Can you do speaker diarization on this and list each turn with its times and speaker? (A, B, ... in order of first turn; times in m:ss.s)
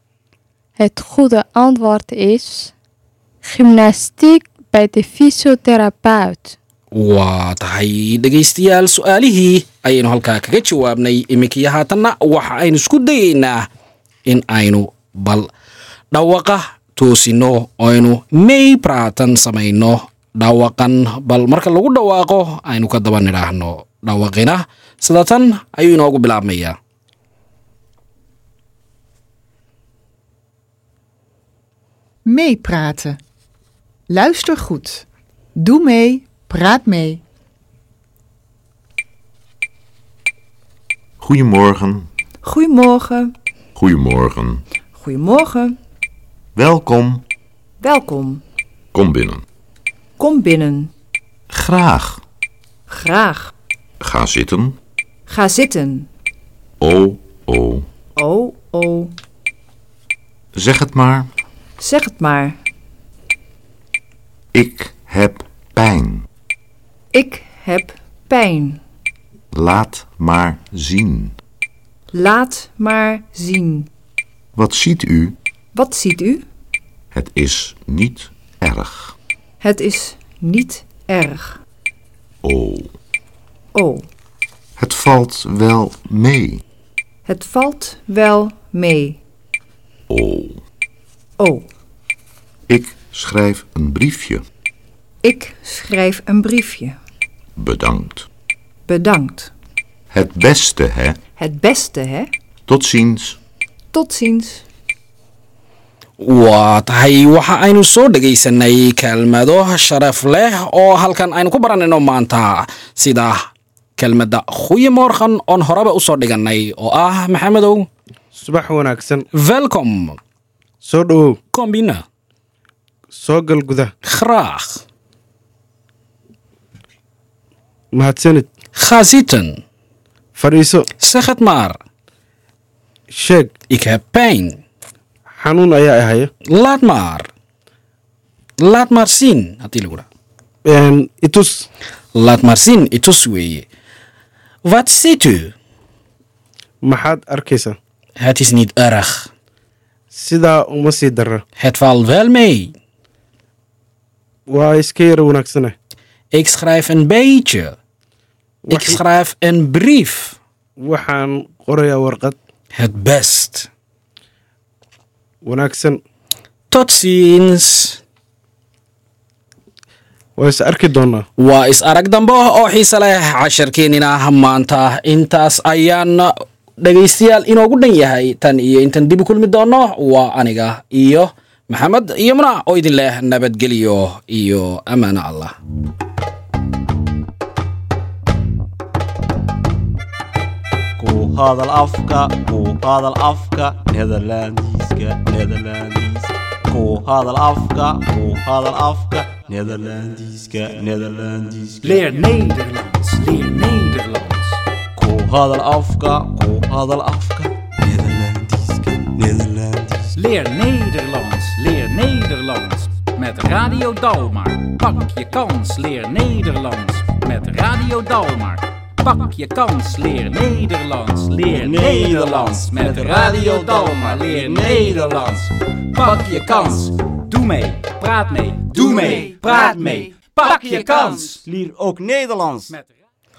0:00.8-0:02.7 A
0:03.4-0:06.6 A
0:06.9-0:13.7 B
0:14.3-0:15.5 B
0:16.1-0:26.8 B
0:32.3-0:33.2 C
0:34.1-0:35.0 C
0:35.6-0:37.2 C
0:41.2-0:42.1 D
0:42.4-0:43.4 E
0:43.8-0:44.6 D
0:44.9-0:45.8 E
0:46.6-0:47.2 D
0:47.8-0:48.4 E
0:48.9-0:49.4 D
0:50.2-0:50.9 E
0:51.5-0:52.2 D
0:52.9-0:53.5 E
0:54.0-0:54.8 D
0:55.3-0:56.1 E
0:56.8-0:57.9 D
0:58.2-0:59.1 E
1:00.5-1:01.3 D
1:01.8-1:02.6 E
1:04.5-1:06.3 D
1:07.1-1:08.8 E
1:09.5-1:11.4 D
1:12.1-1:13.9 E
1:14.6-1:15.4 D
1:15.7-1:16.5 E
1:17.1-1:19.2 D
1:19.6-1:21.6 E
1:22.4-1:22.9 D
1:23.7-1:24.1 E
1:24.8-1:26.6 D
1:27.3-1:29.2 E
1:30.1-1:30.6 D
1:31.4-1:31.7 E
1:32.7-1:34.4 D
1:35.2-1:37.0 E
1:37.6-1:38.3 D
1:38.9-1:39.5 E
1:40.1-1:41.2 D
1:41.4-1:42.3 E
1:42.7-1:43.4 D
1:43.9-1:44.6 E
1:46.2-1:53.5 B
1:54.0-1:57.9 B
1:58.3-1:59.3 F
1:59.3-2:00.2 B
2:00.8-2:01.4 F
2:01.5-2:02.0 B
2:03.1-2:03.9 F
2:04.0-2:04.8 B
2:07.9-2:08.5 F
2:08.8-2:09.6 B
2:10.4-2:10.9 F
2:11.0-2:11.8 B
2:13.1-2:13.5 F
2:13.7-2:14.6 B
2:15.3-2:16.3 F
2:16.5-2:17.3 B
2:18.6-2:20.0 B
2:20.7-2:21.7 F
2:22.2-2:23.7 B
2:24.7-2:25.5 B
2:26.8-2:27.8 F
2:28.2-2:29.3 B
2:30.1-2:31.4 F
2:31.6-2:32.7 B
2:34.5-2:35.8 F
2:36.3-2:37.8 B
2:38.6-2:39.0 F
2:38.7-2:40.4 B
2:40.8-2:42.4 F
2:42.7-2:43.7 B
2:45.4-2:46.0 F
2:46.7-2:48.0 B
2:50.4-2:51.3 F
2:51.4-3:05.5 B
3:11.0-3:22.2 G
3:21.8-3:24.6 H
3:25.0-3:30.1 G
3:30.1-3:51.4 H
3:41.5-3:45.3 G
3:48.7-3:52.7 G
3:52.7-3:52.9 H